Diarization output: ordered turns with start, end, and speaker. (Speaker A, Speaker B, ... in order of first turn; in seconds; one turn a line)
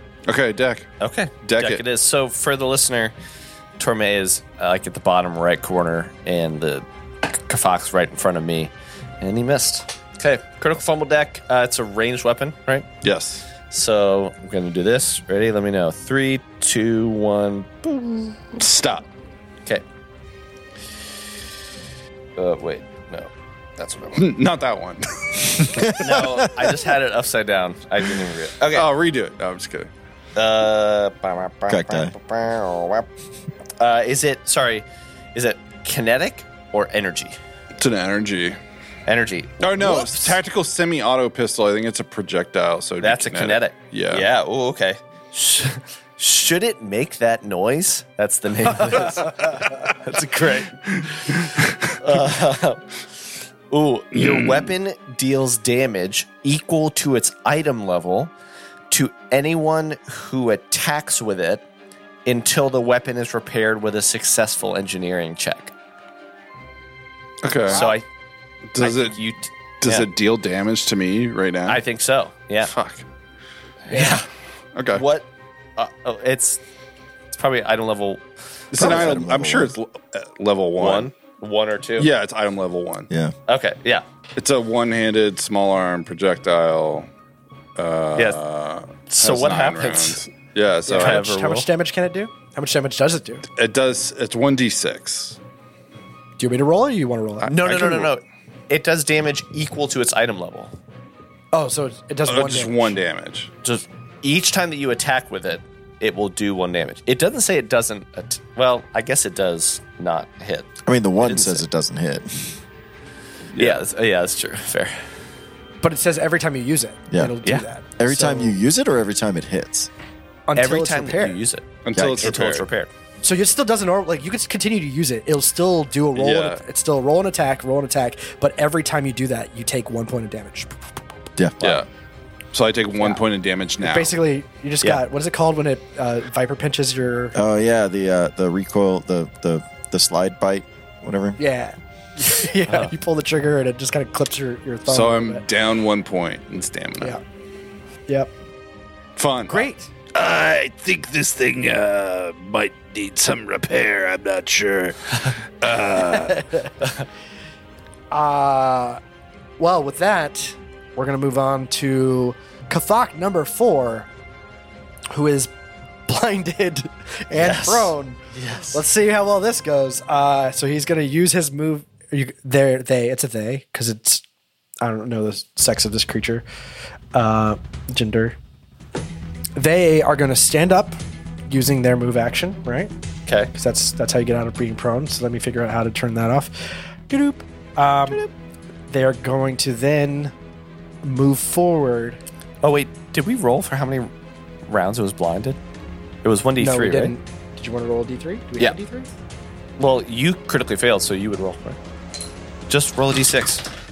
Speaker A: 0.3-0.9
Speaker B: 1.0-3.1
Speaker A: 1.4-1.8
Speaker B: 3.8-12.9
Speaker A: 13.0-13.4
Speaker B: 13.7-18.5
Speaker A: 18.6-19.1
Speaker B: 22.4-24.3
Speaker A: 24.1-26.1
Speaker C: 25.7-26.2
Speaker B: 25.9-28.9
Speaker A: 28.7-29.9
Speaker B: 30.4-33.1
Speaker C: 31.7-32.1
Speaker B: 33.8-37.4
Speaker A: 37.8-38.6
Speaker B: 39.1-40.4
Speaker A: 39.6-44.3
Speaker B: 43.0-53.0
Speaker A: 50.9-51.9
Speaker B: 53.7-58.3
Speaker A: 54.1-54.7
Speaker B: 58.9-61.6
Speaker B: 62.2-65.7
Speaker A: 67.4-67.9
Speaker B: 67.7-68.0
Speaker A: 68.7-69.2
Speaker B: 68.8-70.1
Speaker A: 69.8-71.8
Speaker B: 71.7-72.7
Speaker A: 72.6-73.0
Speaker B: 73.9-74.3
Speaker A: 74.8-75.0
Speaker B: 74.9-76.6
Speaker B: 77.3-78.2
Speaker A: 78.7-81.1
Speaker B: 78.8-79.2
Speaker C: 78.8-79.7
Speaker B: 80.8-82.1
Speaker A: 82.0-83.1
Speaker B: 83.5-84.0
Speaker A: 84.4-87.1
Speaker A: 87.8-91.3
Speaker B: 89.1-90.2
Speaker D: 90.9-93.4
Speaker B: 90.9-91.7
Speaker A: 93.5-95.4
Speaker D: 96.4-98.1
Speaker B: 97.4-100.8
Speaker D: 101.5-103.0
Speaker A: 102.3-103.5
Speaker B: 103.6-111.7
Speaker C: 110.8-112.6
Speaker A: 113.5-113.8
Speaker B: 113.5-115.0
Speaker D: 115.8-118.6
Speaker C: 117.1-117.4
Speaker C: 118.0-119.9
Speaker D: 120.5-121.4
Speaker B: 120.6-122.9
Speaker A: 121.8-122.7
Speaker C: 122.0-122.3
Speaker D: 123.2-130.8
Speaker A: 126.2-126.6
Speaker C: 131.4-131.8
Speaker A: 131.6-131.9
Speaker A: 132.5-134.2
Speaker D: 133.0-133.2
Speaker D: 133.8-137.4
Speaker C: 137.3-141.4
Speaker D: 141.4-145.4
Speaker A: 144.9-147.2
Speaker A: 149.2-149.7
Speaker D: 149.5-149.9
Speaker E: 150.1-156.4
Speaker D: 158.1-159.0
Speaker D: 159.6-164.1
Speaker D: 165.1-165.5
Speaker D: 166.1-168.2
Speaker B: 167.3-168.8
Speaker D: 168.7-174.2
Speaker D: 174.8-176.4
Speaker D: 177.1-178.4
Speaker D: 179.6-181.0
Speaker D: 181.5-182.9
Speaker B: 183.3-183.5
Speaker D: 183.5-188.2
Speaker D: 188.9-190.3
Speaker D: 191.0-192.2
Speaker B: 192.6-194.1
Speaker B: 194.7-195.6
Speaker B: 196.2-197.2
Speaker D: 196.6-199.1
Speaker B: 199.8-201.8
Speaker B: 202.7-203.7